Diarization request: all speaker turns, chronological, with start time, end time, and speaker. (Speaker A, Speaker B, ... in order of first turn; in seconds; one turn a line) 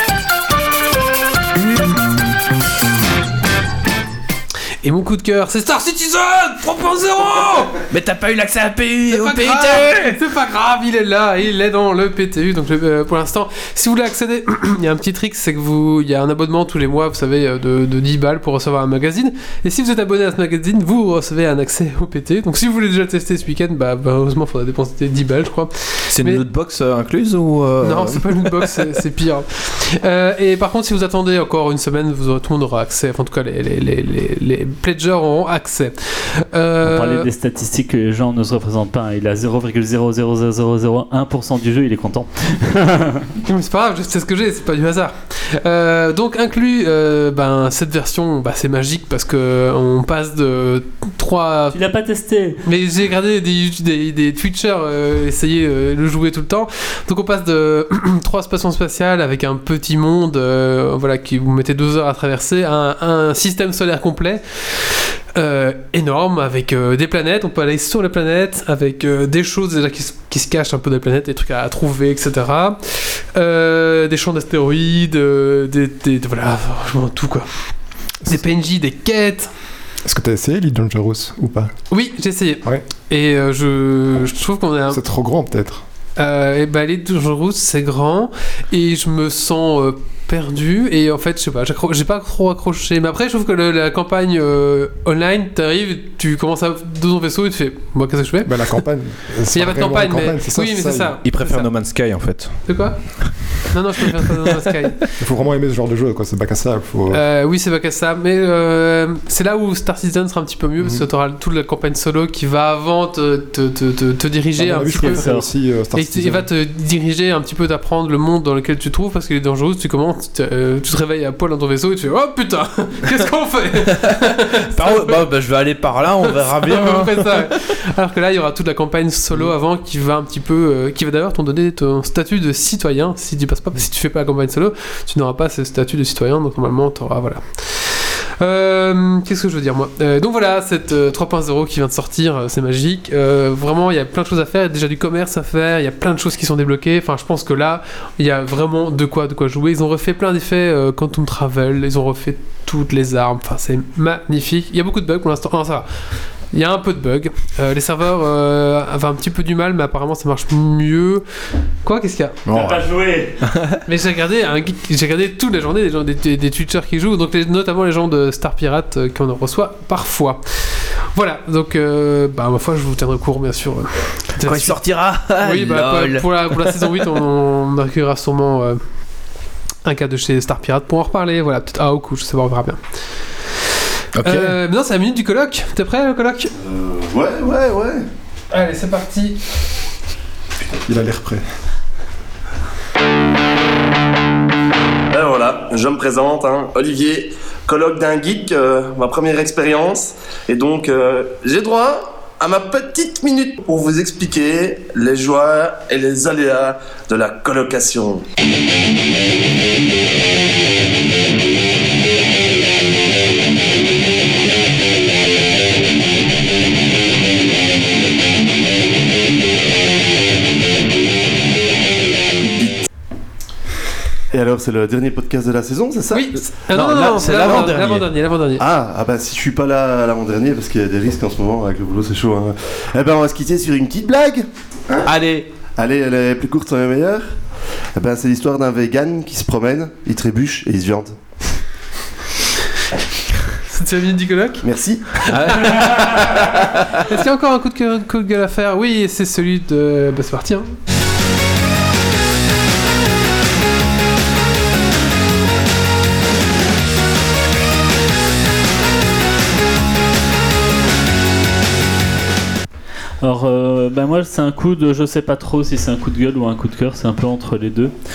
Speaker A: 4.8-7.8
Speaker B: 7.9-10.2
Speaker A: 9.1-26.4
Speaker B: 26.1-28.8
Speaker A: 27.8-37.3
Speaker C: 36.8-43.3
Speaker A: 43.4-51.8
Speaker C: 51.7-52.6
Speaker A: 52.6-77.5
Speaker A: 78.2-79.5
Speaker D: 80.0-81.7
Speaker A: 81.9-85.0
Speaker D: 84.9-85.8
Speaker A: 86.2-98.5
Speaker D: 98.4-101.2
Speaker A: 99.5-101.7
Speaker B: 101.2-102.7
Speaker A: 102.7-103.1
Speaker A: 103.6-105.0
Speaker D: 105.2-107.2
Speaker A: 107.1-115.3
Speaker D: 114.5-116.5
Speaker C: 115.0-115.5
Speaker A: 115.9-125.2
Speaker B: 123.9-127.5
Speaker A: 126.3-155.9
Speaker A: 156.5-161.2
Speaker A: 161.8-162.4
Speaker B: 162.5-162.8
Speaker C: 162.5-163.3
Speaker A: 163.8-170.4
Speaker A: 171.1-174.8
Speaker B: 174.4-176.9
Speaker A: 175.4-178.8
Speaker A: 179.8-182.8
Speaker B: 184.1-184.6
Speaker A: 184.2-186.5
Speaker E: 186.6-188.1
Speaker A: 188.5-189.4
Speaker D: 190.8-191.4
Speaker F: 195.1-208.2
Speaker E: 224.3-226.3
Speaker A: 226.1-228.6
Speaker B: 226.7-228.1
Speaker E: 228.6-235.1
Speaker B: 235.0-235.5
Speaker E: 235.8-237.3
Speaker E: 237.9-241.2
Speaker A: 243.7-244.6
Speaker E: 244.6-245.1
Speaker B: 245.3-247.0
Speaker A: 247.1-250.7
Speaker C: 263.2-267.9